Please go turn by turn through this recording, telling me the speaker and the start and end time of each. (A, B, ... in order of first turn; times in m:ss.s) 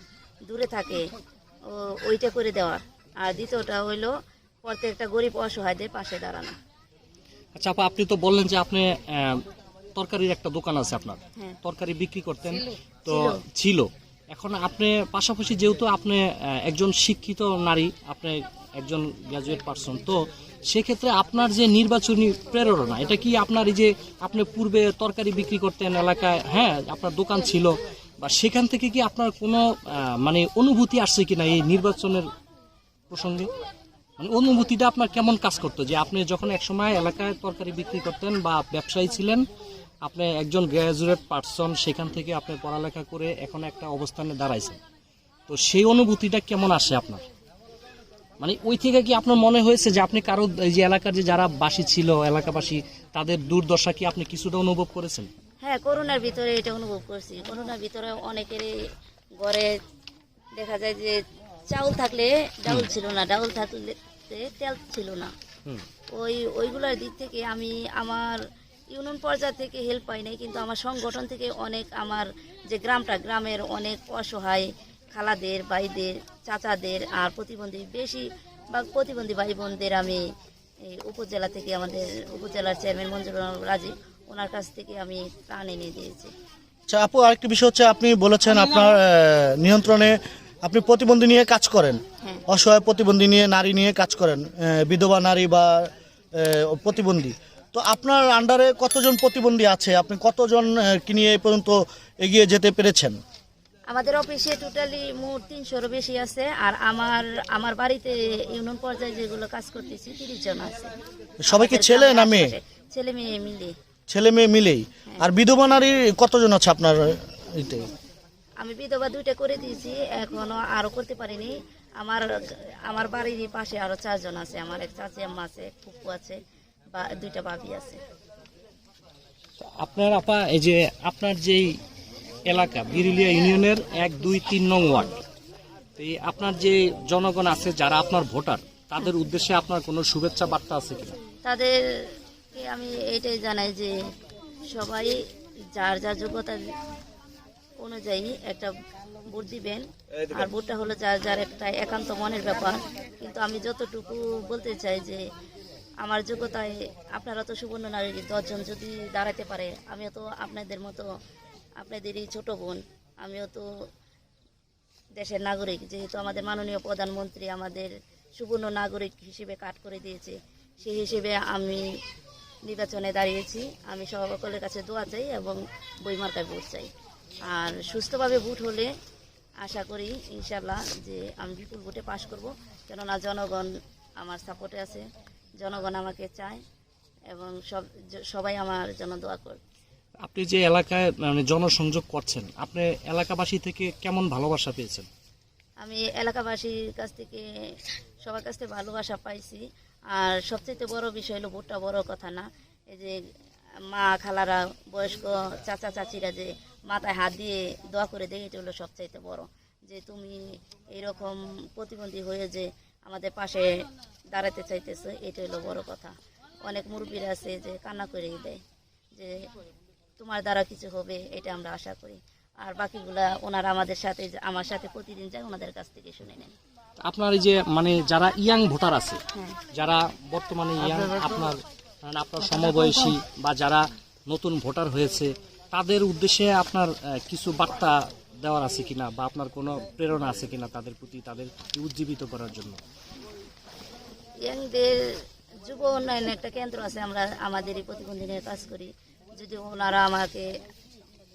0:00.4-0:01.1 A
0:01.7-0:04.1 A
0:04.6-0:06.5 A
0:07.5-0:09.4 B
0:10.0-0:32.3 B
0:13.0-0:13.4 A
0:33.1-0:33.5 B
0:34.2-0:39.4 B
0:40.0-0:44.8 B
0:45.5-0:47.2 B
0:48.4-0:55.3 B
0:55.6-0:58.7 A
0:59.4-0:59.7 A
1:00.6-1:01.2 A
1:01.7-1:05.3 A
1:06.1-1:08.4 A
1:08.9-1:20.2 A
1:20.9-1:26.3 A
1:26.9-1:43.2 C
1:43.9-1:50.9 A
1:51.5-1:52.6 C
1:51.5-1:53.7 A
1:54.1-1:57.9 C
1:58.6-2:06.4 A
2:06.9-2:08.0 A
2:09.8-2:11.7 B
2:12.5-2:15.2 B
2:16.0-2:21.2 B
2:21.4-2:23.9 A
2:24.7-2:25.2 A
2:25.7-2:26.6 A
2:27.8-2:28.7 A
2:29.3-2:35.2 A
2:36.0-2:41.1 A
2:41.8-2:43.7 A
2:45.2-2:51.8 A
2:52.6-2:56.9 A
2:57.5-2:58.9 A
2:59.6-3:05.0 A
3:05.6-3:06.6 A
3:07.3-3:09.6 A
3:10.2-3:15.1 B
3:15.8-3:17.4 A
3:18.2-3:19.6 A
3:20.1-3:23.1 A
3:23.9-3:36.1 A
3:36.6-3:38.6 A
3:39.1-3:39.4 A
3:40.2-3:46.5 A
3:47.0-4:02.8 B
4:04.4-4:05.0 A
4:05.6-4:10.5 A